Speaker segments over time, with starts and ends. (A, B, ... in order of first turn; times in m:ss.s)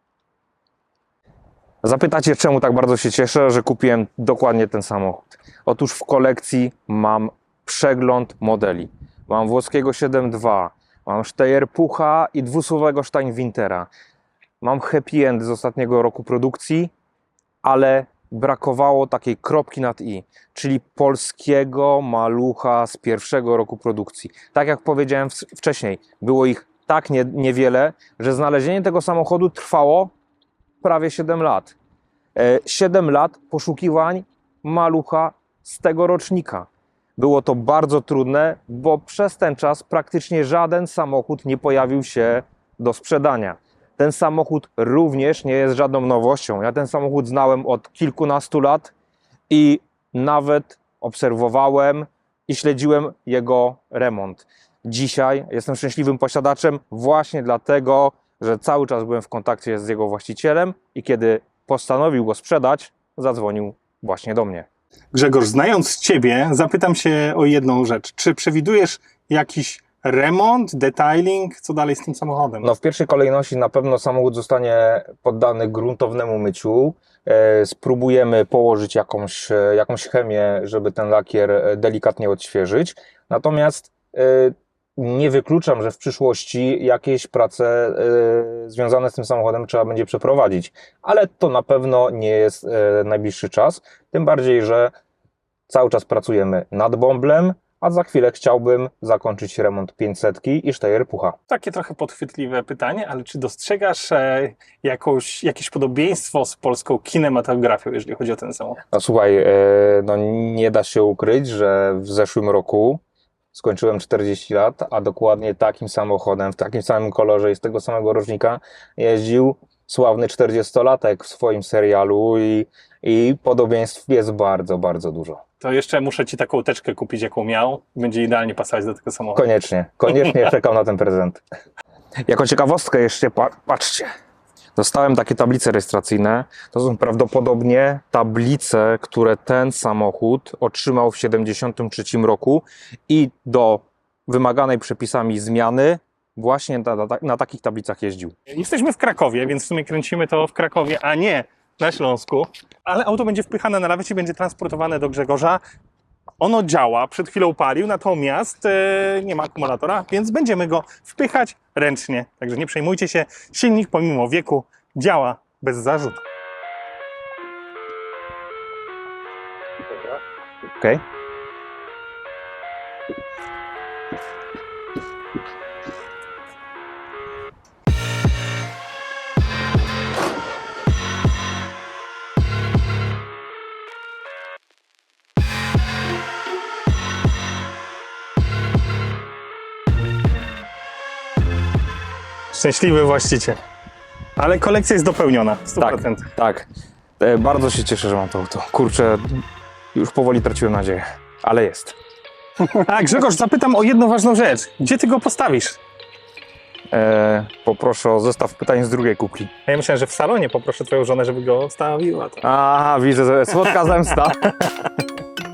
0:01.8-0:13.9 A
0:14.6-0:16.9 A
0:17.6-0:30.1 A
0:30.8-0:31.8 A
0:32.4-0:48.9 A
0:49.5-1:04.7 A
1:05.1-1:12.7 B
1:12.6-1:34.9 A
1:35.7-1:41.4 A
1:41.5-1:48.8 B
1:48.9-1:53.0 A
1:53.5-2:05.4 A
2:05.6-2:09.4 B
2:09.4-2:11.4 A
2:12.3-2:14.1 A
2:14.8-2:28.4 A
2:28.5-2:35.6 B
2:36.4-2:46.2 B
3:12.5-3:13.6 B
3:14.4-3:16.3 B
3:15.8-3:16.7 A
3:17.2-3:22.0 A
3:22.6-3:25.8 B
3:26.9-3:29.5 A
3:29.7-3:32.4 B
3:32.4-3:34.9 A